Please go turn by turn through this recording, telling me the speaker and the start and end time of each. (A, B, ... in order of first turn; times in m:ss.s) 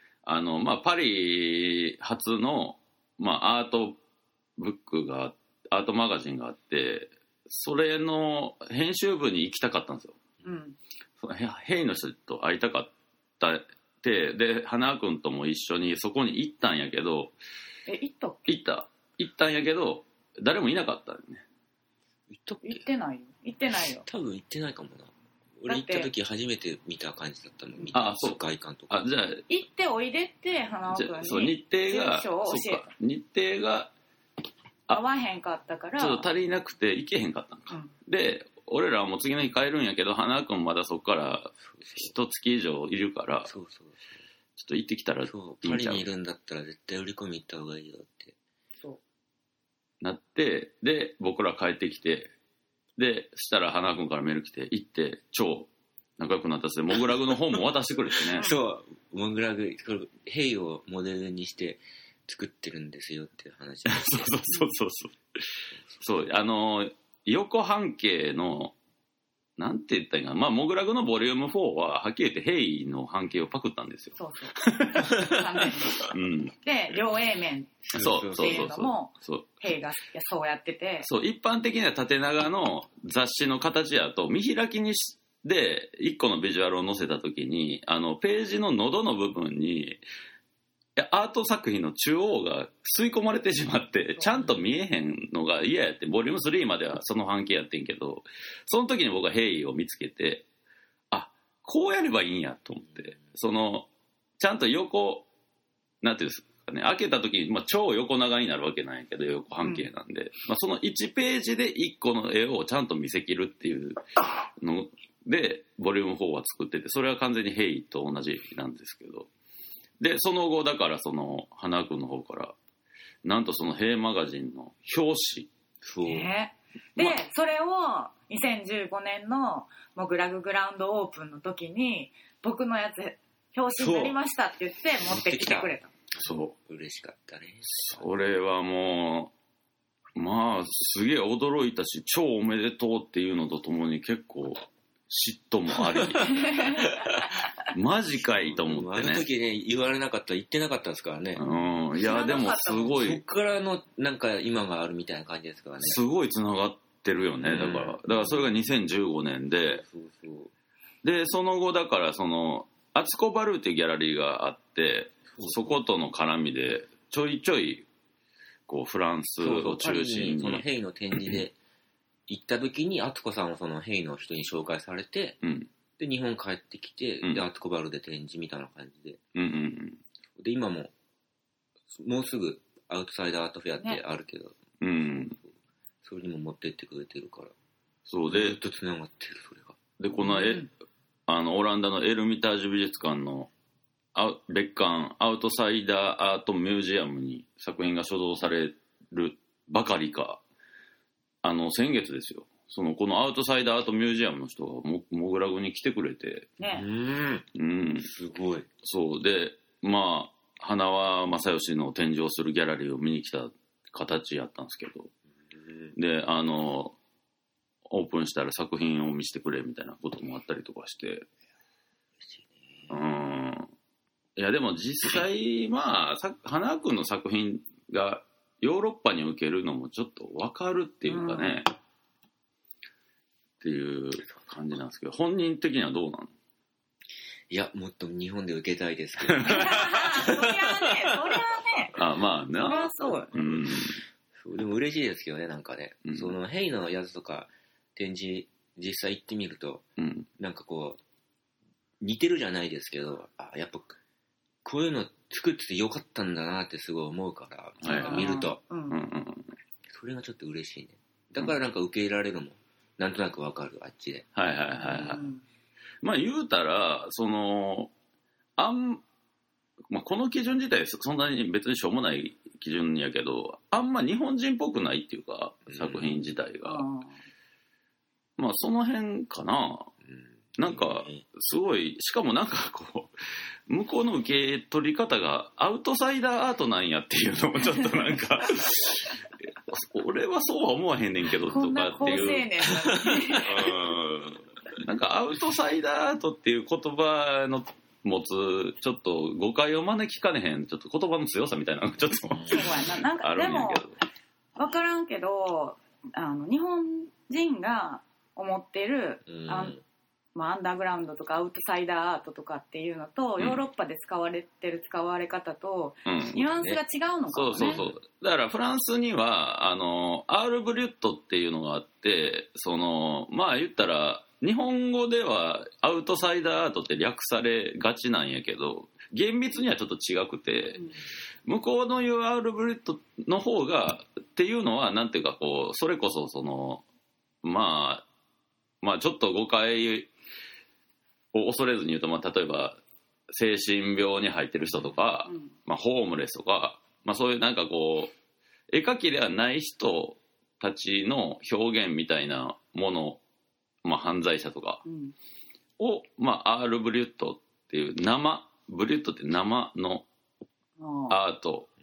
0:00.2-0:04.0 A
0:04.6-0:10.2 A
0:10.4-0:10.8 B
0:11.2-0:17.3 A
0:17.9-0:18.5 B
0:18.5-0:21.4 A
0:22.3-0:22.8 C
0:22.6-0:24.1 B
0:24.0-0:29.0 C
0:25.7-0:26.1 B
0:27.9-0:29.4 A
0:29.5-0:32.9 B
0:30.9-0:33.9 A
0:34.9-0:36.3 B
0:36.0-0:43.5 A
0:41.8-0:42.1 C
0:43.5-0:44.0 C
0:44.6-0:46.0 A
0:45.3-0:48.4 C
0:50.0-0:52.3 A
0:53.0-0:58.5 A
0:58.3-1:04.4 C
1:03.9-1:08.7 A
1:09.6-1:15.4 A
1:14.2-1:21.1 B
1:16.0-1:16.6 A
1:17.9-1:18.7 C
1:18.0-1:19.5 A
1:21.0-1:30.0 A
1:31.0-1:40.5 A
1:41.1-1:43.9 A
1:44.4-1:45.3 A
1:46.0-1:54.0 A
1:54.6-1:59.3 A
2:00.0-2:02.6 A
2:03.2-2:05.5 A
2:05.8-2:06.3 C
2:06.0-2:15.9 B
2:13.8-2:14.2 C
2:15.0-2:18.1 C
2:16.2-2:16.6 A
2:17.7-2:19.3 A
2:20.2-2:29.3 A
2:26.3-2:27.0 B
2:28.3-2:31.4 C
2:31.4-2:33.2 A
2:32.0-2:33.0 B
2:32.9-2:36.0 C
2:35.8-2:39.8 A
2:37.4-2:38.0 C
2:39.7-2:40.5 C
2:41.0-2:47.9 A
2:45.3-2:45.8 C
2:48.7-2:51.4 A
2:49.4-2:51.6 C
2:52.3-2:55.4 C
2:55.4-2:55.7 A
2:56.0-2:59.2 C
2:59.4-3:00.0 A
3:00.4-3:00.9 C
3:01.9-3:04.6 C
3:04.8-3:05.4 A
3:06.0-3:07.5 C
3:08.1-3:08.6 A
3:08.3-3:09.8 C
3:10.0-3:10.7 A
3:10.2-3:10.7 B
3:11.3-3:13.5 A
3:14.2-3:20.4 A
3:21.4-3:26.5 A
3:26.6-3:26.9 B
3:26.7-3:27.5 C
3:27.6-3:28.1 A
3:28.0-3:28.7 C
3:28.8-3:35.1 A
3:35.5-3:35.9 C
3:36.0-3:37.0 A
3:37.9-3:41.3 A
3:42.2-3:43.0 C
3:42.9-3:43.7 A
3:44.4-3:51.7 A
3:51.1-3:51.6 B
3:53.6-3:56.3 A
3:57.5-4:01.4 C
3:59.3-3:59.7 A
3:59.4-4:01.9 B
4:02.0-4:04.0 A
4:02.6-4:03.3 B
4:03.3-4:09.8 C
4:06.0-4:06.4 A
4:10.0-4:10.3 A
4:10.4-4:11.0 C
4:12.0-4:14.0 C
4:14.6-4:18.6 C
4:17.8-4:19.5 A
4:17.9-4:19.0 B
4:19.9-4:24.3 C
4:24.4-4:25.2 A
4:24.8-4:25.4 B
4:26.0-4:27.9 A
4:28.6-4:29.0 A
4:29.9-4:36.9 A
4:35.7-4:36.2 C
4:36.6-4:37.1 B
4:38.4-4:39.9 A
4:40.0-4:41.3 C
4:40.6-4:43.1 A
4:43.7-4:52.5 A
4:51.5-4:53.7 B
4:53.1-4:53.7 C
4:53.4-5:04.0 A
5:02.3-5:02.6 C
5:02.4-5:03.8 B
5:04.6-5:09.8 B
5:09.3-5:09.8 C
5:10.4-5:17.8 B
5:16.1-5:16.4 A
5:16.3-5:16.8 C
5:17.3-5:30.9 A
5:17.5-5:18.0 C
5:31.4-5:36.8 A
5:37.4-5:38.0 A
5:38.8-5:40.1 A
5:41.3-5:42.8 A
5:43.3-5:48.1 A
5:44.7-5:45.0 C
5:45.3-5:45.5 B
5:48.7-5:53.2 A
5:53.8-5:54.8 A
5:54.8-5:55.2 B
5:55.8-6:00.1 A
6:00.8-6:01.2 B
6:01.1-6:01.7 A